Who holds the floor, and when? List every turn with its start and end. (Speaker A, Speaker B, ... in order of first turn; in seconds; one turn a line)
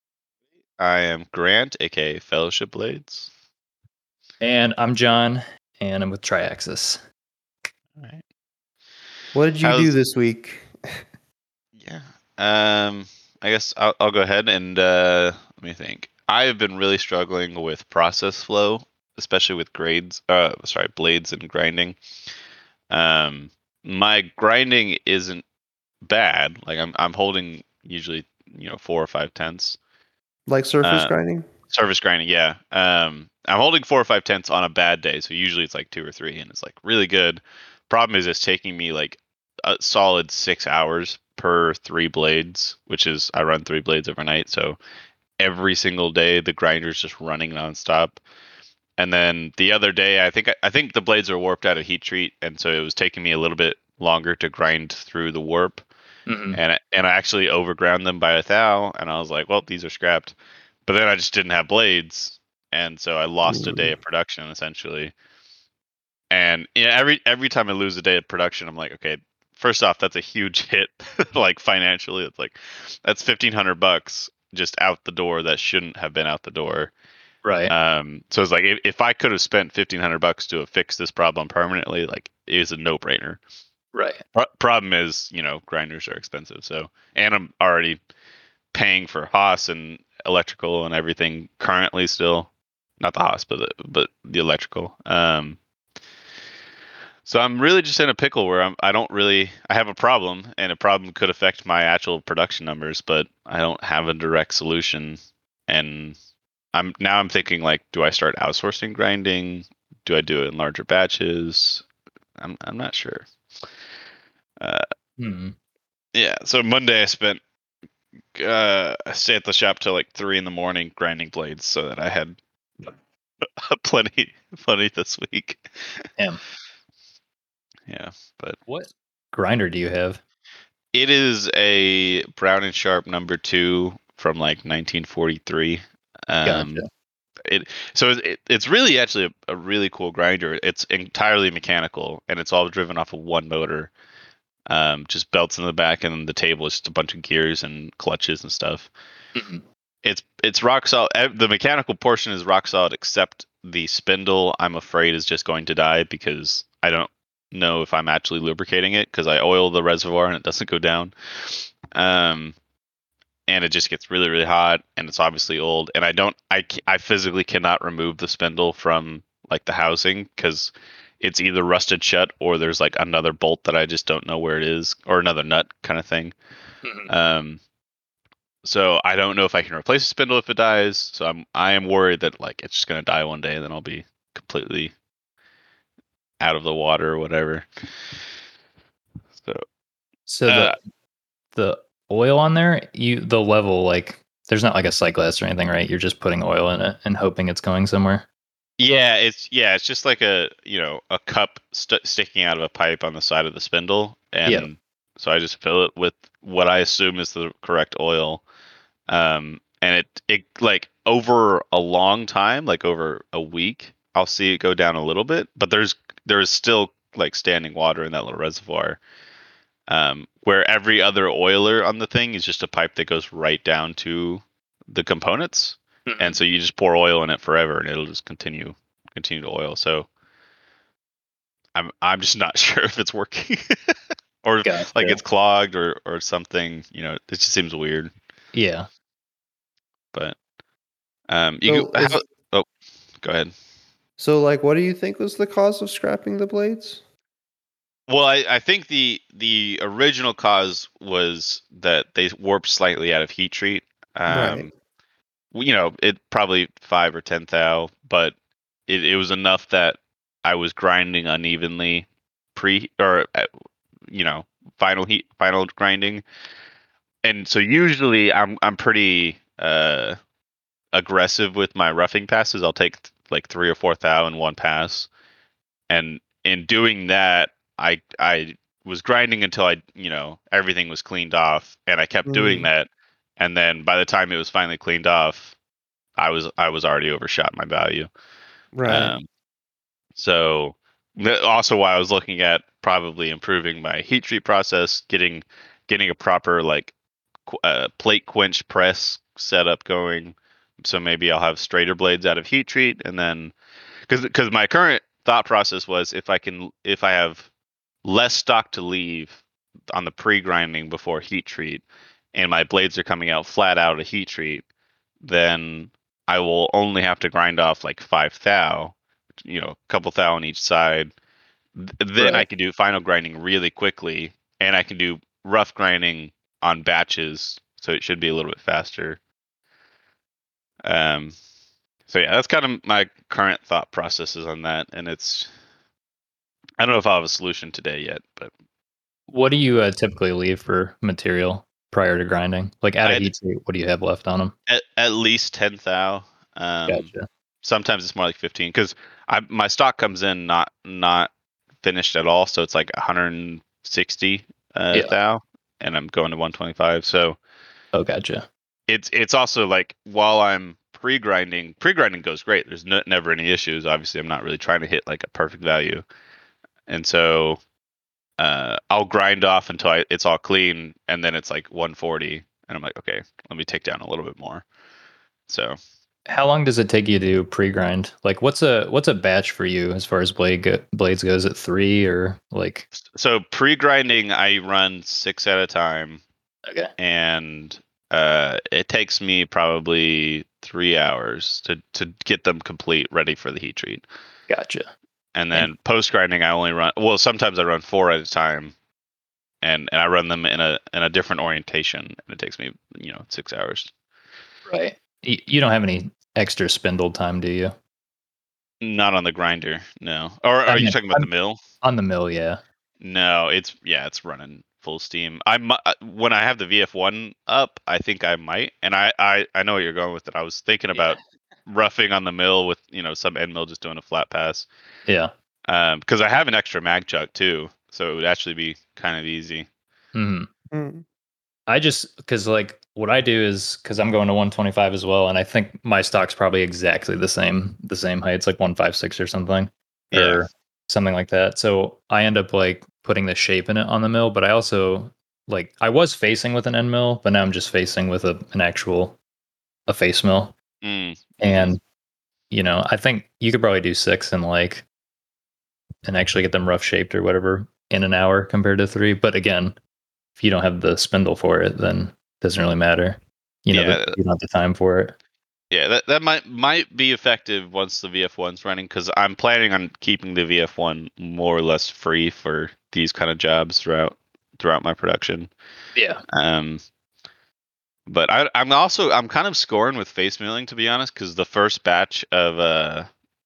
Speaker A: 0.8-3.3
Speaker B: 4.4-7.0
Speaker A: 8.0-8.2
Speaker C: 9.3-11.0
Speaker A: 9.6-9.9
Speaker A: 11.8-22.0
Speaker A: 22.9-25.4
Speaker A: 26.0-29.8
Speaker C: 30.5-31.5
Speaker A: 30.8-31.1
Speaker A: 31.7-44.8
Speaker A: 45.4-48.2
Speaker A: 49.0-55.8
Speaker B: 56.3-56.6
Speaker A: 56.5-60.3
Speaker A: 60.9-65.1
Speaker C: 63.5-63.9
Speaker A: 66.3-76.9
Speaker B: 77.5-77.7
Speaker A: 77.7-83.4
Speaker B: 83.9-84.2
Speaker A: 84.3-88.0
Speaker A: 88.7-95.6
Speaker A: 97.2-105.2
Speaker A: 105.7-106.2
Speaker A: 106.7-111.8
Speaker A: 112.4-113.3
Speaker B: 115.2-115.6
Speaker A: 116.1-117.4
Speaker A: 118.3-122.9
Speaker A: 123.5-126.0
Speaker A: 127.9-128.6
Speaker B: 128.7-130.2
Speaker A: 130.9-136.8
Speaker B: 136.4-136.8
Speaker A: 137.4-143.9
Speaker A: 144.7-148.9
Speaker B: 149.3-149.6
Speaker A: 150.0-162.6
Speaker A: 163.5-176.3
Speaker B: 176.8-177.1
Speaker A: 177.1-177.6
Speaker A: 178.6-184.9
Speaker A: 186.4-187.7
Speaker A: 189.4-189.6
Speaker B: 190.3-190.8
Speaker A: 190.5-190.7
Speaker B: 191.5-198.2
Speaker A: 198.8-208.4
Speaker A: 209.1-219.0
Speaker A: 219.9-230.1
Speaker B: 226.1-226.4
Speaker A: 231.7-238.1
Speaker B: 234.6-235.2
Speaker B: 238.5-238.9
Speaker A: 241.3-242.7
Speaker C: 241.7-242.2
Speaker A: 243.2-243.5
Speaker C: 244.2-247.0
Speaker A: 248.1-254.7
Speaker C: 254.3-254.7
Speaker A: 255.5-258.3
Speaker A: 258.9-263.5
Speaker A: 264.1-266.2
Speaker A: 267.2-270.2
Speaker A: 270.9-275.1
Speaker A: 275.9-285.5
Speaker C: 282.3-282.7
Speaker A: 286.2-288.1
Speaker C: 288.7-289.1
Speaker A: 288.9-289.2
Speaker A: 290.1-296.9
Speaker A: 297.4-303.5
Speaker A: 304.1-307.5
Speaker A: 308.0-314.6
Speaker A: 315.2-321.1
Speaker A: 321.8-329.2
Speaker A: 330.8-331.4
Speaker A: 332.1-335.5
Speaker A: 336.8-338.5
Speaker B: 339.3-344.5
Speaker A: 343.0-343.3
Speaker A: 344.7-347.1
Speaker B: 346.9-347.3
Speaker A: 347.6-351.3
Speaker A: 351.8-357.4
Speaker B: 357.9-358.5
Speaker A: 358.9-366.0
Speaker A: 366.9-367.6
Speaker A: 368.4-374.6
Speaker A: 375.5-375.8
Speaker B: 376.3-382.9
Speaker A: 383.1-386.2
Speaker B: 386.6-386.9
Speaker A: 387.0-394.0
Speaker B: 394.5-394.9
Speaker A: 395.3-398.7
Speaker A: 399.6-403.9
Speaker B: 404.7-407.8
Speaker A: 408.8-411.6
Speaker B: 410.7-411.3
Speaker B: 411.8-412.6
Speaker A: 413.0-424.7
Speaker B: 425.1-425.3
Speaker A: 425.7-429.7
Speaker B: 430.1-430.5
Speaker C: 430.7-431.0
Speaker B: 431.7-449.2
Speaker A: 440.1-440.4
Speaker B: 449.9-450.5
Speaker A: 450.8-451.7
Speaker B: 451.4-451.8
Speaker B: 452.5-454.8
Speaker B: 456.0-459.8
Speaker B: 460.4-465.1
Speaker A: 463.7-464.1
Speaker A: 465.7-475.5
Speaker B: 475.9-476.2
Speaker A: 476.3-476.8
Speaker A: 478.1-483.1